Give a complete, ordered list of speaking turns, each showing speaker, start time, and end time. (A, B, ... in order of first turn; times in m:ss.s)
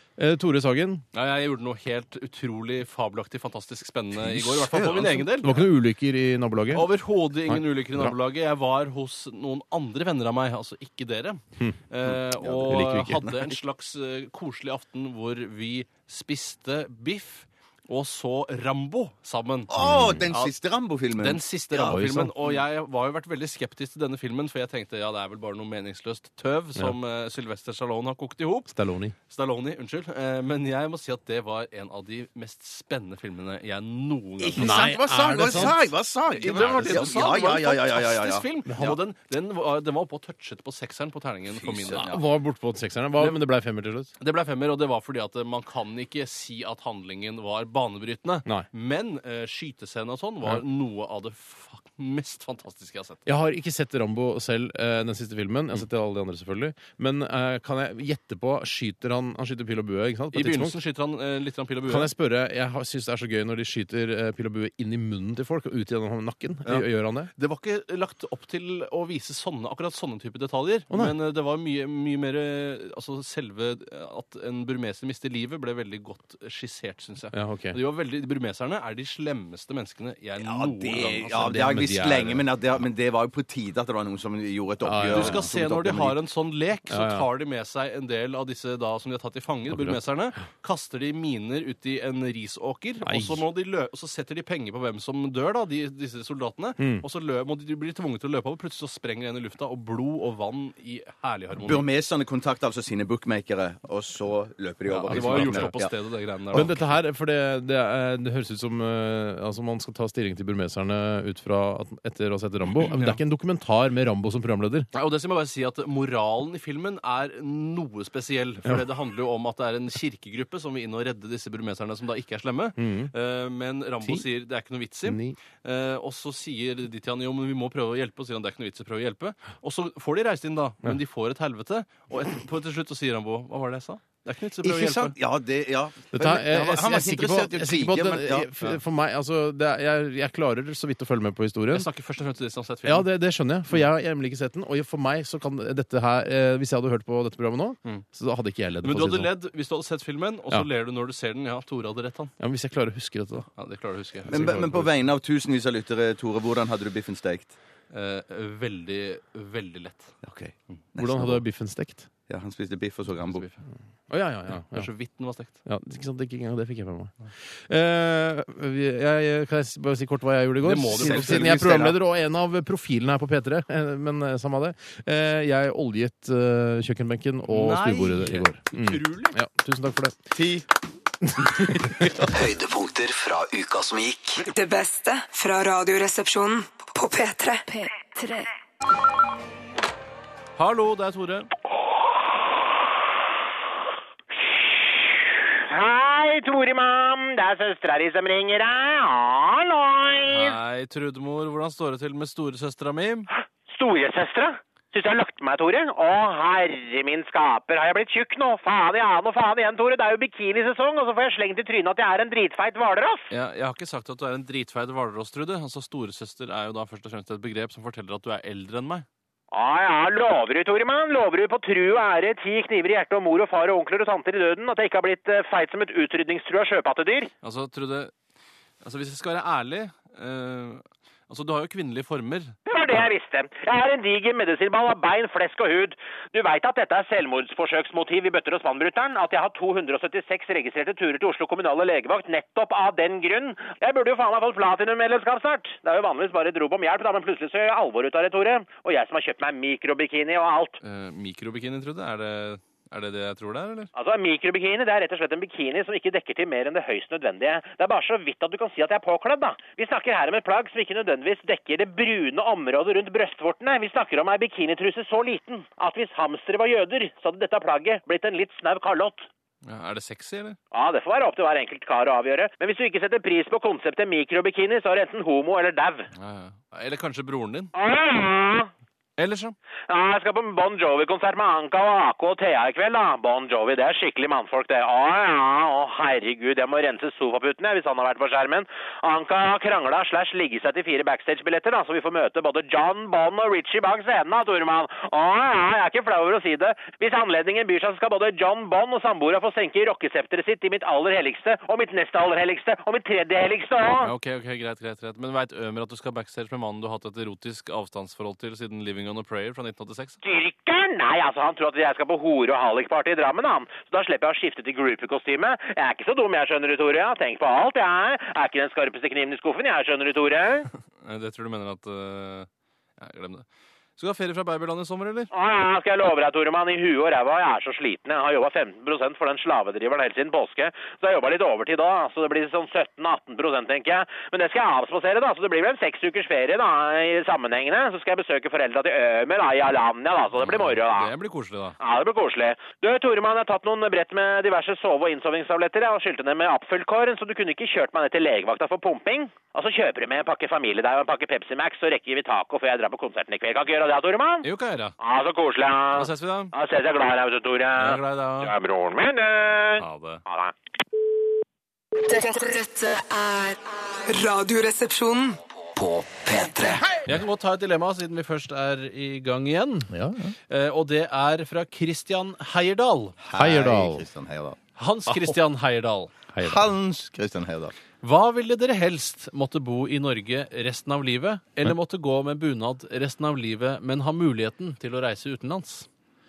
0:00.2-0:01.0 A
0:01.1-0:05.6 B
0:04.2-0:05.3 C
0:05.4-0:06.9 A
0:06.7-0:19.7 B
0:07.5-0:08.1 A
0:12.0-0:13.5 C
0:12.7-0:13.2 A
0:19.7-0:22.5 C
0:19.8-0:20.3 A
0:21.1-0:28.7 B
0:21.8-0:22.3 A
0:28.7-0:29.2 A
0:29.3-0:34.9 B
0:34.4-0:39.0 C
0:34.6-0:35.9 A
0:35.4-0:35.8 B
0:36.3-0:42.1 B
0:36.4-0:37.1 A
0:38.7-0:39.0 A
0:41.5-0:42.2 C
0:41.9-0:44.1 A
0:44.2-0:53.2 B
0:53.2-1:00.8 A
1:00.3-1:02.1 B
1:01.9-1:07.3 A
1:07.4-1:21.6 B
1:10.9-1:11.2 A
1:17.3-1:17.8 A
1:20.4-1:26.2 C
1:21.0-1:22.5 A
1:24.8-1:25.5 A
1:25.1-1:41.9 B
1:26.9-1:27.3 A
1:29.7-1:30.0 A
1:33.0-1:33.4 A
1:36.8-1:37.0 A
1:41.6-1:45.9 C
1:44.9-1:46.8 B
1:45.1-1:45.8 A
1:46.5-1:54.9 A
1:52.8-1:53.2 B
1:54.9-2:15.1 B
2:02.8-2:03.1 A
2:05.0-2:05.4 A
2:14.6-2:18.5 C
2:16.1-2:21.9 A
2:21.7-2:23.1 B
2:22.8-2:29.3 A
2:28.8-2:32.3 B
2:32.4-2:33.5 A
2:33.6-2:34.6 B
2:34.2-2:34.9 A
2:34.3-2:37.5 C
2:37.9-2:40.1 B
2:40.2-2:41.4 C
2:41.0-2:42.1 A
2:42.3-2:43.5 C
2:43.2-2:43.6 B
2:44.1-2:44.9 A
2:44.7-2:45.6 B
2:45.6-3:00.2 A
2:50.6-2:51.7 B
2:50.9-2:52.0 C
2:57.5-2:59.4 B
3:00.3-3:00.6 C
3:01.2-3:02.2 A
3:01.8-3:02.3 C
3:02.3-3:04.5 D
3:04.4-3:08.5 E
3:10.6-3:11.5 B
3:14.5-3:20.6 F
3:20.2-3:23.3 B
3:23.7-3:33.3 F
3:33.3-3:39.0 B
3:39.5-3:47.3 F
3:47.4-3:48.1 B
3:48.8-3:52.6 B
3:52.7-4:10.8 F
4:10.8-4:13.9 B
4:14.0-4:29.3 F
4:29.6-4:30.6 B
4:30.7-4:36.1 F
4:36.2-4:37.7 B
4:37.7-4:38.7 F
4:39.2-4:39.6 B
4:39.9-5:04.1 F
5:04.0-5:10.2 B
5:10.2-5:20.7 F
5:21.0-5:23.4 B
5:24.0-5:25.3 B
5:25.3-5:41.1 F
5:40.4-5:41.8 B
5:41.8-5:54.5 F
5:54.4-5:55.0 B
5:55.0-6:00.5 F
5:55.9-5:56.5 B
5:57.8-5:58.5 B
5:59.8-6:00.2 B
6:02.1-6:03.4 E
6:04.1-6:05.4 E
6:05.7-6:06.8 D
6:07.0-6:09.9 B
6:09.9-6:10.4 A
6:10.5-6:13.2 B
6:13.2-6:15.4 C
6:13.3-6:14.1 A
6:14.8-6:16.2 B
6:16.3-6:16.7 A
6:16.4-6:17.7 C
6:18.0-6:25.9 B